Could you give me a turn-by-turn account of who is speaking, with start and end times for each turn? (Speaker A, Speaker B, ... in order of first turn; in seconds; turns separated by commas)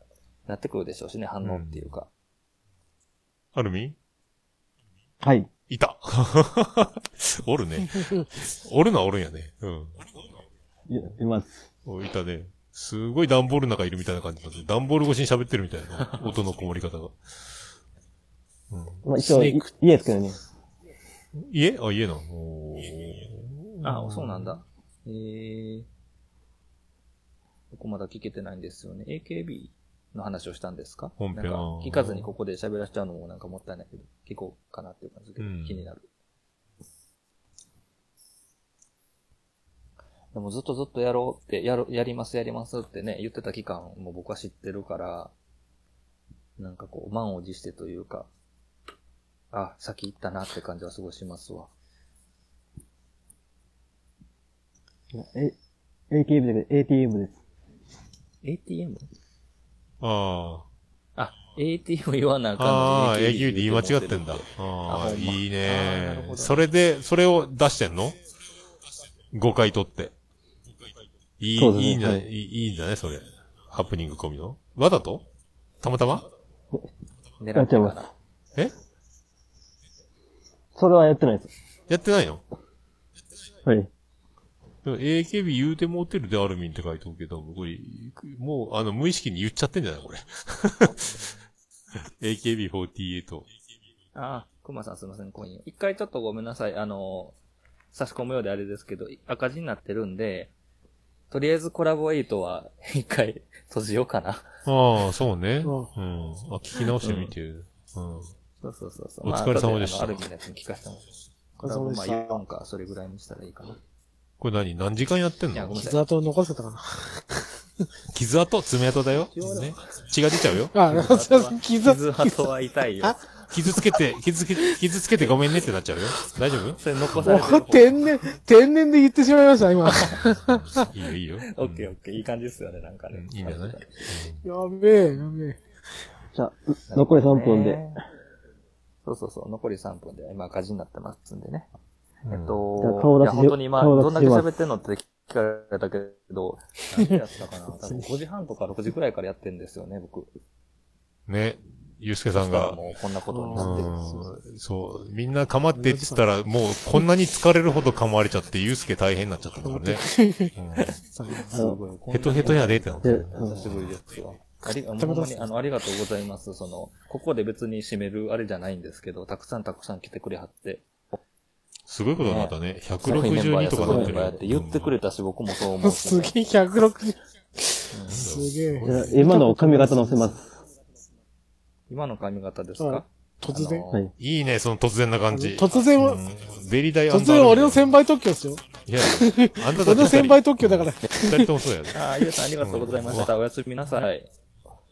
Speaker A: 0.5-2.1, Speaker B: 1.4-2.0, Speaker B: 3.5-4.0, Speaker C: 5.2-5.5, Speaker B: 5.7-10.0, Speaker C: 10.9-11.6, Speaker B: 11.8-17.2, Speaker A: 16.0-16.3, Speaker B: 18.7-19.0, Speaker C: 19.0-20.4, Speaker D: 19.2-19.7, Speaker B: 21.4-24.6, Speaker A: 23.8-25.9, Speaker A: 27.7-36.0, Speaker B: 31.2-32.3, Speaker B: 35.4-35.9, Speaker A: 40.3-45.3, Speaker A: 46.6-48.3, Speaker A: 49.5-51.7, Speaker C: 55.1-55.5, Speaker C: 56.1-57.4, Speaker A: 58.4-59.1, Speaker B: 60.0-60.6, Speaker A: 61.1-66.6, Speaker B: 62.6-68.2, Speaker B: 69.3-70.1, Speaker B: 71.4-75.2, Speaker C: 71.5-72.2, Speaker B: 75.8-76.2, Speaker A: 77.4-78.1, Speaker C: 77.5-78.0, Speaker C: 80.7-81.5, Speaker B: 81.9-82.4, Speaker C: 83.6-83.9, Speaker B: 84.8-91.1, Speaker A: 91.0-91.4, Speaker B: 92.2-93.5, Speaker A: 94.1-97.3, Speaker A: 97.9-100.5, Speaker A: 101.3-104.5, Speaker B: 104.7-108.3, Speaker D: 105.6-105.9, Speaker A: 107.0-107.3, Speaker A: 108.6-111.0, Speaker B: 109.2-110.2, Speaker D: 111.6-112.4, Speaker A: 111.6-113.8, Speaker B: 114.4-115.8, Speaker A: 115.5-116.0, Speaker D: 115.8-117.4, Speaker B: 118.1-120.9, Speaker A: 119.3-119.8, Speaker D: 120.7-122.5, Speaker A: 120.9-123.3, Speaker B: 123.5-127.3, Speaker A: 126.8-128.0, Speaker D: 127.2-130.9, Speaker A: 129.9-130.2, Speaker B: 130.4-131.9, Speaker A: 131.5-134.2, Speaker B: 133.1-134.4, Speaker D: 134.4-135.6, Speaker C: 136.3-137.8, Speaker A: 136.9-138.0, Speaker A: 139.0-141.7, Speaker B: 142.2-142.6, Speaker A: 142.3-150.3, Speaker C: 142.8-144.5, Speaker B: 151.3-152.8, Speaker A: 152.3-153.9, Speaker D: 153.3-154.3, Speaker B: 153.5-161.0, Speaker D: 155.7-156.3, Speaker D: 159.6-160.5, Speaker A: 160.8-171.2, Speaker D: 161.1-161.6, Speaker C: 161.5-161.8, Speaker B: 162.1-164.0, Speaker C: 163.0-163.7, Speaker D: 165.0-165.4, Speaker B: 171.9-175.0, Speaker A: 172.2-176.3, Speaker D: 175.7-180.3, Speaker A: 177.9-178.2, Speaker B: 178.1-178.9, Speaker C: 178.8-180.4, Speaker A: 181.9-184.1, Speaker D: 182.8-183.8, Speaker B: 184.2-187.9, Speaker D: 185.3-186.2, Speaker D: 187.1-191.6, Speaker B: 188.8-192.0, Speaker A: 191.9-194.3, Speaker B: 192.6-193.3